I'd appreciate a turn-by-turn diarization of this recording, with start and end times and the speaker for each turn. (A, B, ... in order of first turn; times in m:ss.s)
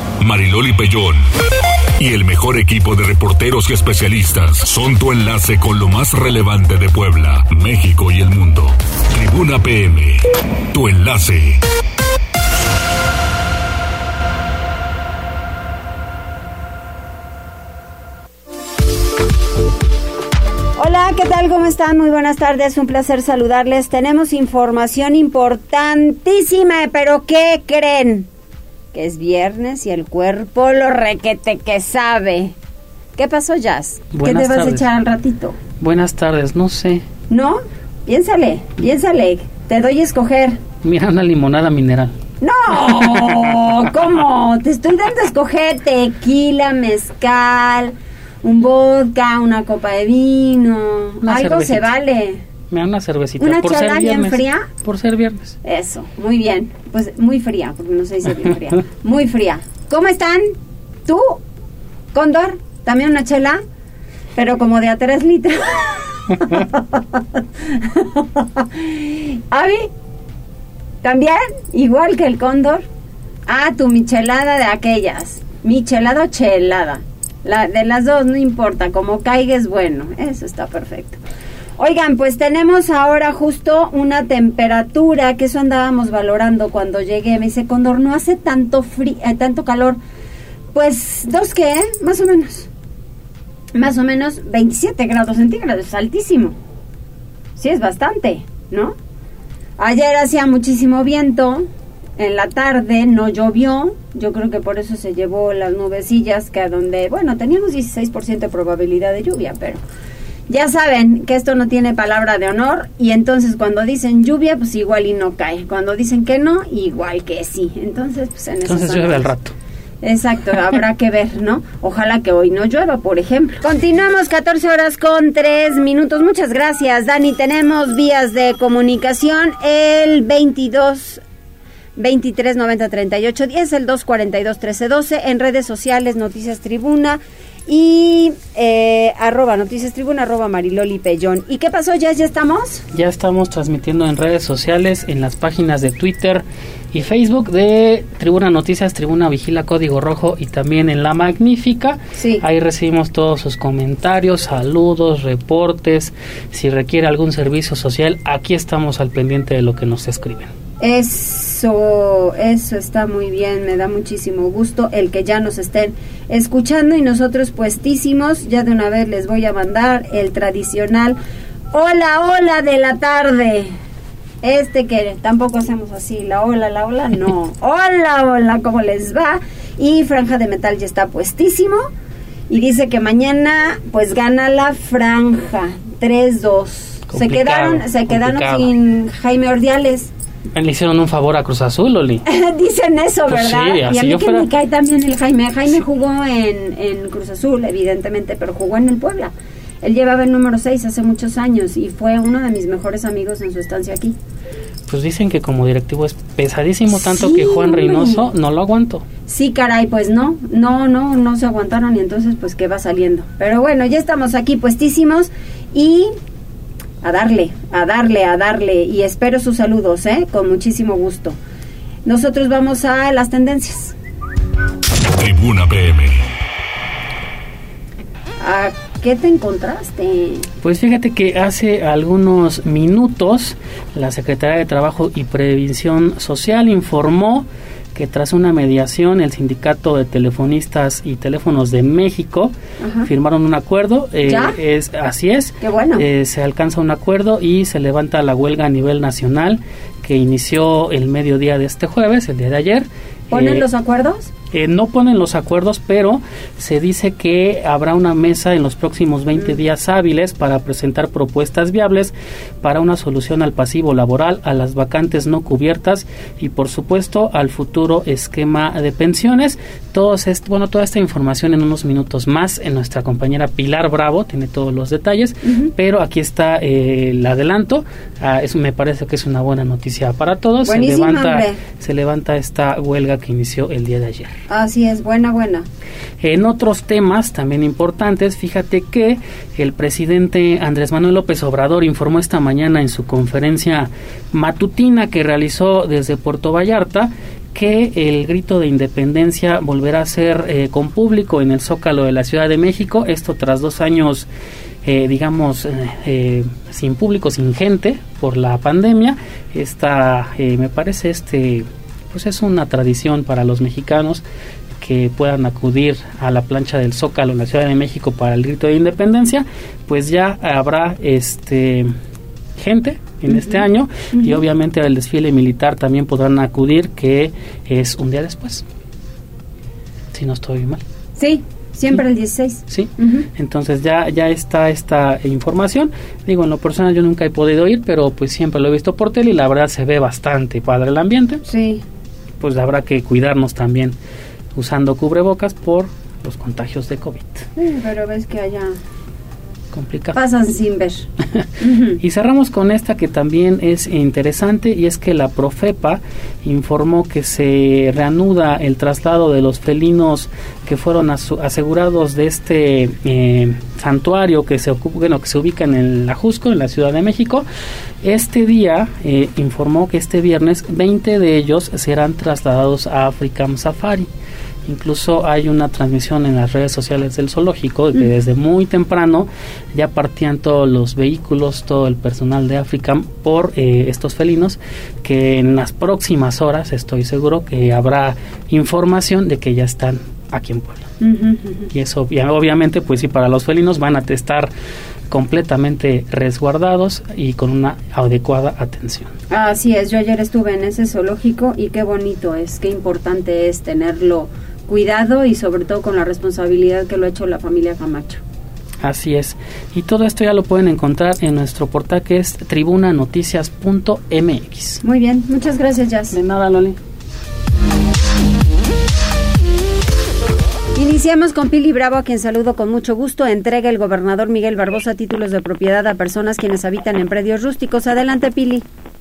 0:00.2-0:01.2 A
0:02.0-0:11.6 A
0:20.8-0:28.3 B
0:28.9-0:32.5 B
0:33.2-0:35.6 B
0:34.1-0:34.8 C
0:35.8-0:37.0 C
0:37.3-0:40.6 B
0:40.8-0:42.1 C
0:42.4-0:52.4 B
0:42.7-0:43.6 C
0:51.2-0:51.9 C
0:52.7-0:55.6 C
0:53.4-0:54.7 B
0:55.6-1:00.5 B
1:01.0-1:01.4 B
1:02.1-1:03.6 B
1:04.4-1:09.9 B
1:11.0-1:12.8 B
1:13.5-1:21.2 B
1:21.8-1:30.0 B
1:30.7-1:32.7 B
1:33.7-1:36.6 B
1:37.6-1:38.9 B
1:39.8-1:41.7 B
1:42.2-1:49.8 B
1:50.5-1:59.3 B
1:58.6-1:59.5 C
2:00.0-2:11.2 B
2:12.0-2:22.8 B
2:22.9-2:40.5 C
2:32.2-2:32.4 B
2:40.8-2:51.2 B
2:51.7-2:53.7 B
2:54.4-3:01.9 B
3:02.5-3:10.1 B
3:07.1-3:08.7 C
3:10.5-3:12.2 C
3:12.3-3:24.2 B
3:13.3-3:14.5 C
3:24.9-3:29.0 C
3:27.0-3:28.2 B
3:29.3-3:36.1 B
3:37.0-3:41.4 B
3:42.0-3:43.9 B
3:45.1-3:46.2 A
3:48.4-3:50.5 B
3:50.6-4:02.5 C
4:02.8-4:03.1 B
4:03.0-4:13.6 C
4:04.2-4:04.5 B
4:05.6-4:06.0 B
4:13.3-4:14.3 B
4:14.5-4:44.4 C
4:35.4-4:35.7 B
4:40.6-4:41.6 B
4:44.5-4:45.6 B
4:46.2-5:04.3 C
5:04.8-5:14.2 C
5:14.8-5:21.9 C
5:22.6-5:28.6 C
5:23.3-5:23.6 B
5:30.1-5:30.8 C
5:31.2-5:33.2 B
5:32.7-5:41.4 C
5:41.4-5:41.8 B
5:42.4-5:44.0 C
5:44.5-5:47.5 C
5:47.6-5:48.8 B
5:49.7-5:50.2 C
5:50.1-5:51.1 B
5:51.6-5:52.0 B
5:52.0-6:07.4 C
6:08.0-6:14.1 C
6:14.7-6:30.9 C
6:31.0-6:31.7 B
6:31.7-6:34.5 C
6:35.1-6:39.1 C
6:39.3-6:48.2 B
6:48.8-6:54.8 C
6:54.8-6:56.1 B
6:56.1-6:56.8 C
7:00.8-7:08.6 B